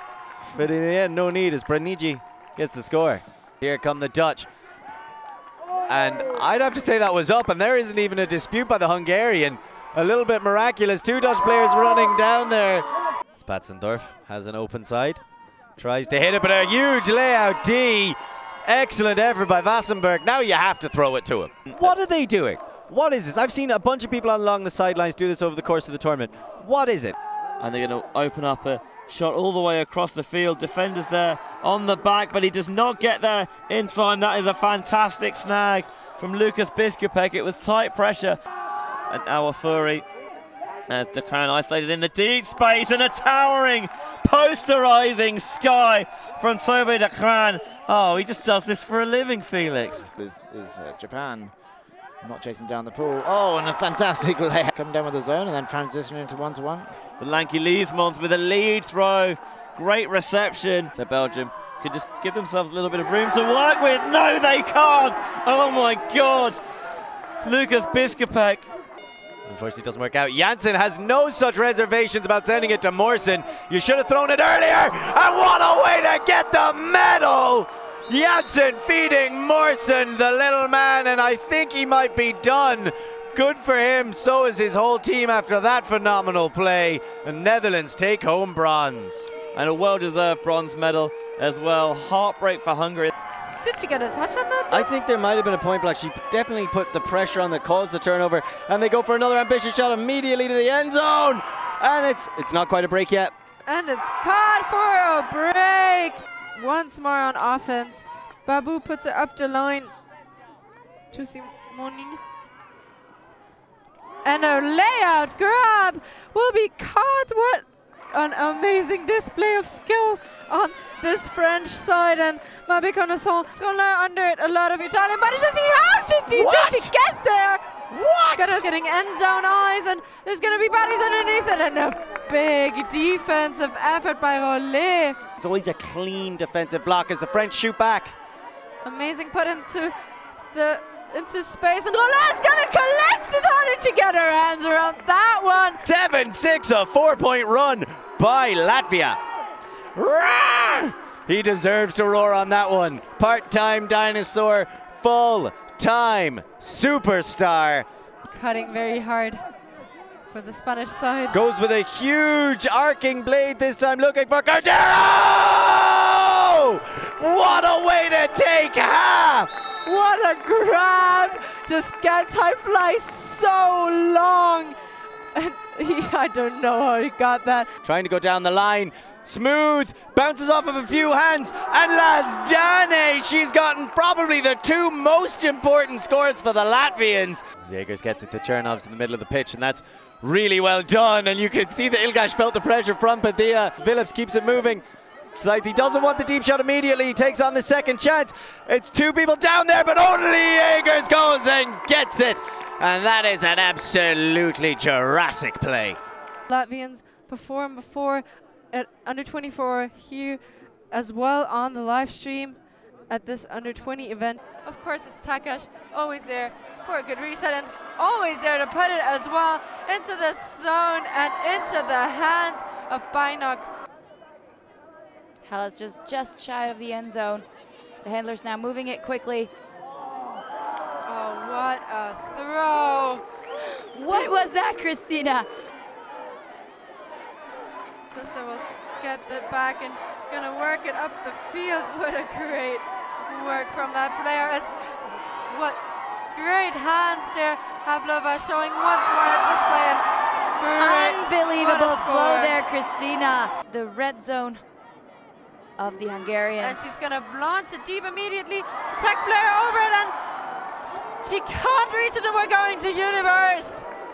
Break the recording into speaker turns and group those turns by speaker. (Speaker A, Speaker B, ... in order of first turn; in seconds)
Speaker A: 0.5-4.5, 5.9-12.8, 13.4-15.2, 15.8-27.1, 69.5-89.3, 94.7-103.3, 126.3-126.9, 127.9-128.6, 135.4-138.1, 145.8-149.2, 149.9-157.8, 161.3-169.5, 177.8-194.8, 195.3-206.0
Speaker B: 27.6-38.4, 39.1-40.0, 40.9-50.1, 57.2-66.6, 67.4-68.7, 89.5-93.1
Speaker C: 50.1-51.5, 52.2-57.0
Speaker D: 93.6-94.9, 103.7-109.9, 111.1-112.2, 114.2-127.6, 128.3-135.2, 138.8-139.9, 140.5-145.8, 158.2-159.4, 160.3-161.3, 169.8-174.8, 175.3-177.7, 206.5-210.4, 210.9-212.6, 213.1-223.7, 231.1-233.2, 238.1-244.7, 245.4-245.8, 246.3-250.0, 250.6-252.6, 256.6-260.1, 260.8-263.9
Speaker E: 225.4-227.4, 228.0-229.5, 233.9-235.5, 250.8-254.6, 255.8-256.8